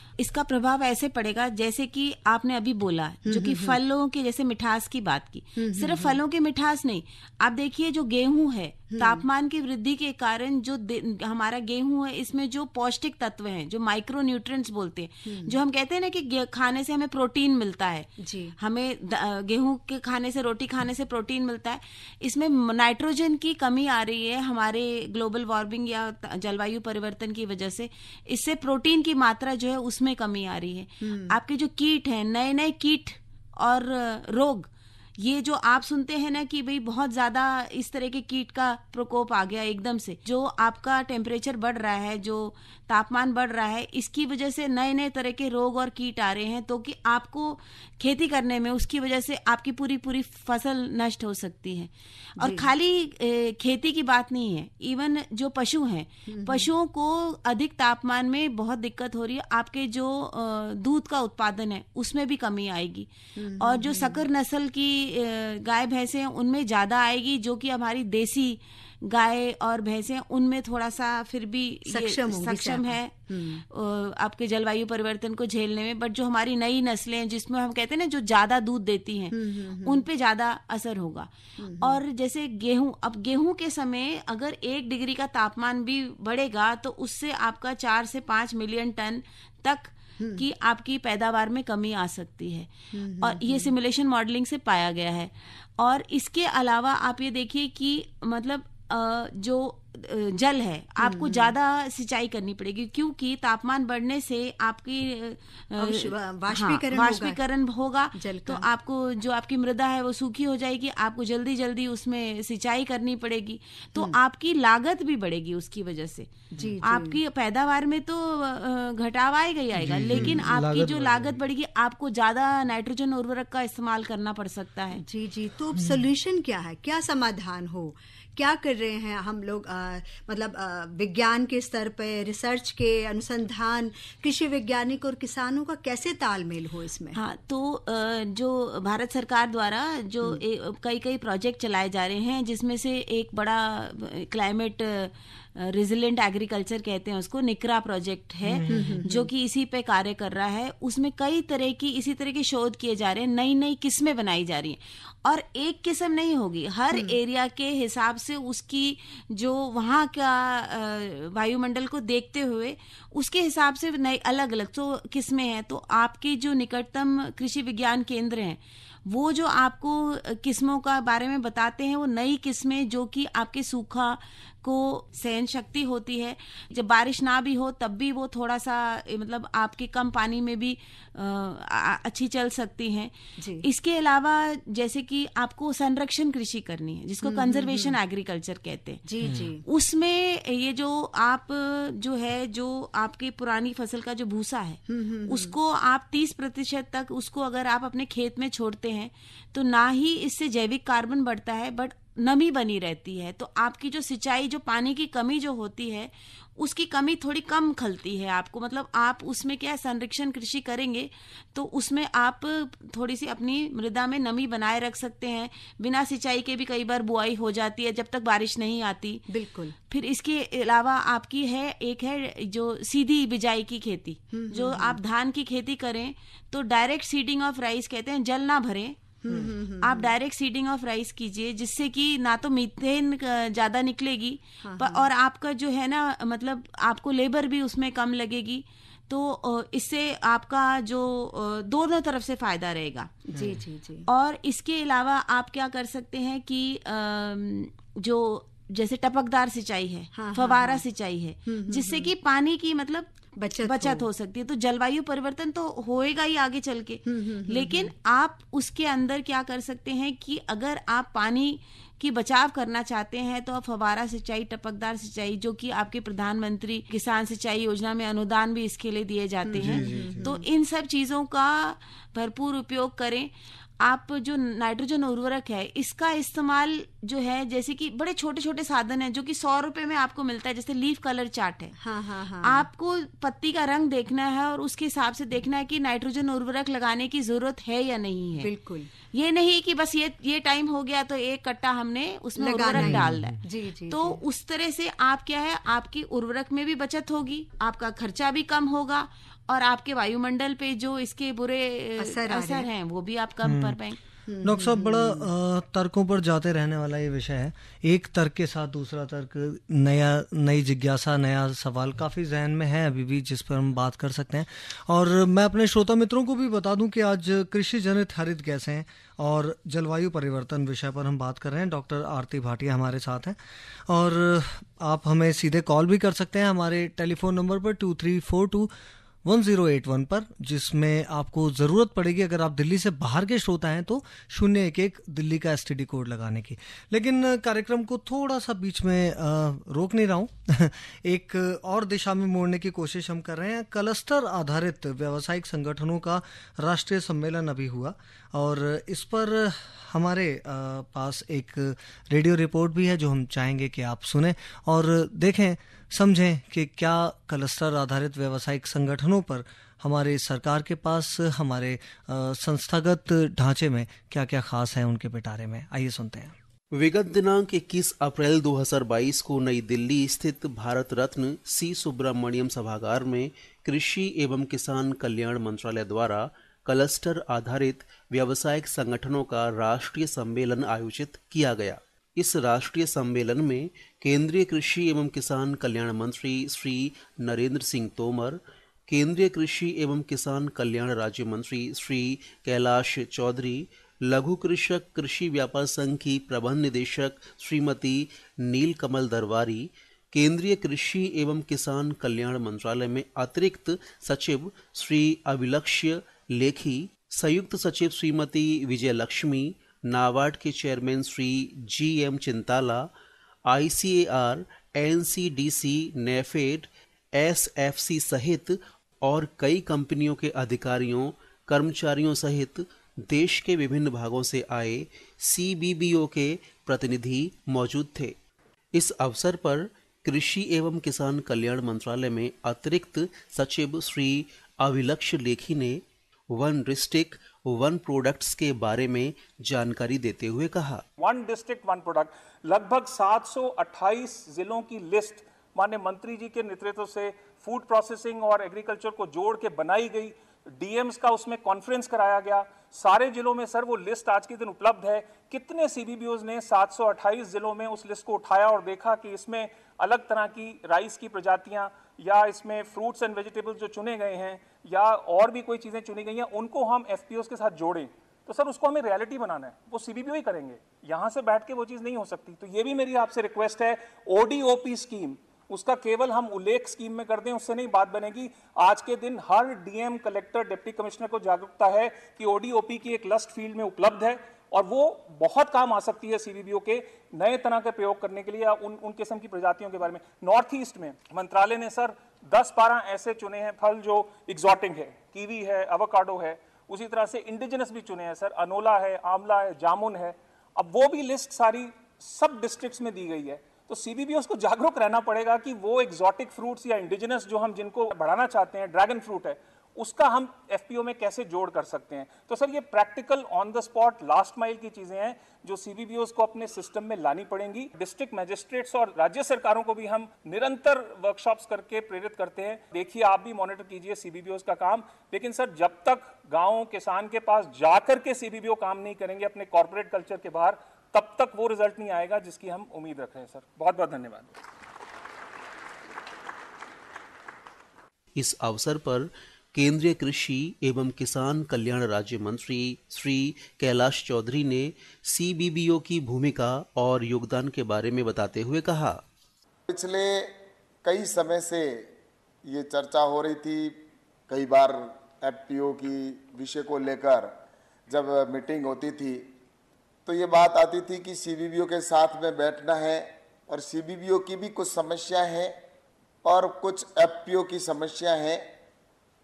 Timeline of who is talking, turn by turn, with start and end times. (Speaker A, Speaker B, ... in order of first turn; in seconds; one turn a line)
Speaker A: 0.2-63.1
Speaker B: 3.3-3.8
Speaker B: 5.6-6.2
Speaker B: 8.9-9.2
Speaker B: 15.3-15.6
Speaker B: 18.2-18.6
Speaker B: 31.0-31.4
Speaker B: 52.4-52.7
Speaker B: 56.3-56.7
Speaker B: 63.4-64.2
Speaker A: 63.6-81.3
Speaker B: 71.9-73.6
Speaker B: 79.3-80.1
Speaker B: 81.6-82.0
Speaker A: 81.8-116.3
Speaker B: 90.2-90.5
Speaker B: 92.9-93.7
Speaker B: 101.0-101.5
Speaker B: 105.8-107.4
Speaker B: 108.2-108.7
Speaker B: 116.5-117.2
Speaker A: 116.8-125.0
Speaker C: 119.8-121.4
Speaker B: 120.1-120.4
Speaker B: 125.0-137.2
Speaker C: 125.8-126.0
Speaker A: 137.2-189.0
Speaker C: 148.4-149.0
Speaker B: 148.7-149.3
Speaker B: 156.9-157.2
Speaker B: 183.4-183.7
Speaker B: 187.2-188.0
Speaker B: 189.1-189.6
Speaker C: 189.2-189.5
Speaker A: 189.7-219.3
Speaker B: 194.9-195.6
Speaker B: 219.3-219.8
Speaker A: 219.9-229.1
Speaker B: 224.3-225.0
Speaker B: 229.2-230.1
Speaker A: 229.8-243.1
Speaker B: 234.6-235.1
Speaker B: 243.3-244.1
Speaker C: 243.3-243.6
Speaker A: 244.1-253.1
Speaker B: 250.2-250.8
Speaker B: 251.5-252.1
Speaker B: 253.4-254.1
Speaker A: 253.6-281.8
Speaker B: 257.1-257.9
Speaker B: 269.5-270.5
Speaker C: 269.6-270.3
Speaker B: 281.8-282.7
Speaker A: 282.4-288.5
Speaker B: 288.4-288.9
Speaker A: 289.1-304.0
Speaker B: 292.4-294.2
Speaker C: 292.8-293.4
Speaker B: 302.0-302.7
Speaker C: 303.4-303.8
Speaker B: 304.3-305.3
Speaker C: 304.4-323.4
Speaker C: 323.9-328.7
Speaker C: 329.2-366.4
Speaker D: 366.7-412.9
Speaker D: 413.5-428.1
Speaker D: 428.7-440.8
Speaker E: 441.0-534.3
Speaker D: 538.1-549.0
Speaker F: 549.7-551.9
Speaker F: 552.4-553.8
Speaker F: 554.3-557.3
Speaker F: 557.9-559.3
Speaker F: 560.1-565.5
Speaker F: 566.2-568.5